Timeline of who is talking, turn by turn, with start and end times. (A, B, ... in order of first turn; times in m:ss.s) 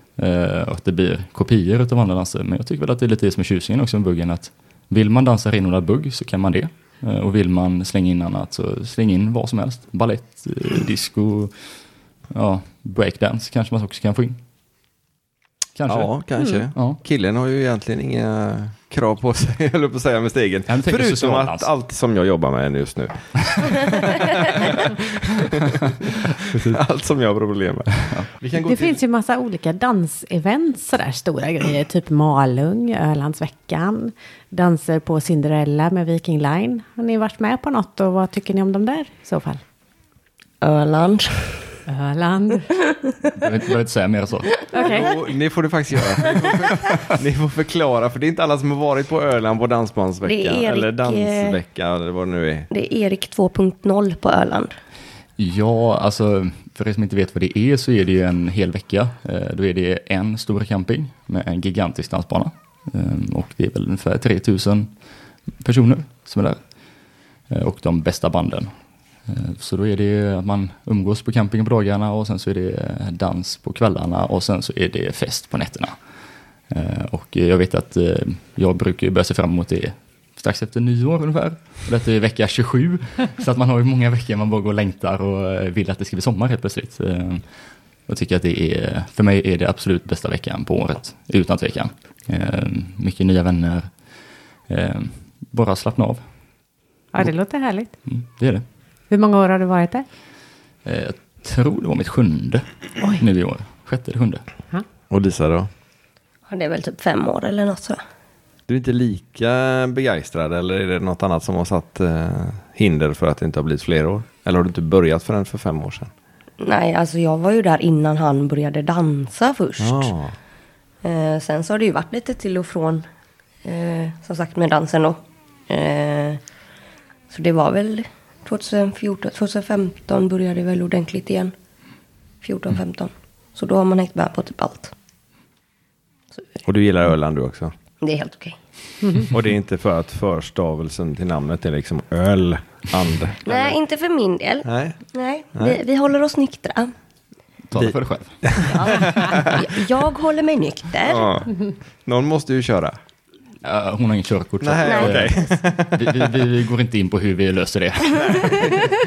0:00.2-0:11.5 A
0:12.3-0:14.4 A
0:15.8-0:16.1 A
0:15.9-0:28.9 B
0:20.7-0:21.7 A
0:26.4-0:26.8 A
0:28.6-0:39.6 C
0:40.6-0:41.6 D
0:41.9-0:42.7 C
0:42.9-0:43.3 D
0:43.3-0:44.5 A
0:44.7-0:45.1 C
0:44.8-0:52.7 B
0:50.2-0:51.6 D
0:52.7-0:54.7 D
0:55.4-1:04.9 A
1:05.6-1:06.6 A
1:07.5-1:08.7 A
1:09.3-1:15.9 A
1:16.7-1:27.4 A
1:28.1-1:33.9 A
1:34.7-1:36.2 A
1:37.1-1:37.9 C
1:38.1-1:38.6 A
1:39.1-1:40.0 C
1:40.8-1:42.6 A
1:43.2-1:44.4 A
1:45.1-1:45.7 B
1:46.5-1:48.0 D
1:48.7-1:56.1 B
1:56.6-2:00.1 D
1:59.8-2:00.3 B
2:01.0-2:03.0 D
2:03.6-2:06.4 D
2:07.3-2:11.5 D
2:12.4-2:14.9 D
2:16.6-2:17.7 B
2:18.0-2:18.6 D
2:19.3-2:23.8 B
2:23.4-2:26.9 D
2:24.6-2:25.0 B
2:27.7-2:29.0 A
2:28.5-2:29.6 B
2:28.7-2:31.3 D
2:31.0-2:32.9 B
2:33.6-2:38.8 A
2:34.6-2:36.4 B
2:34.8-2:35.4 D
2:38.3-2:38.6 B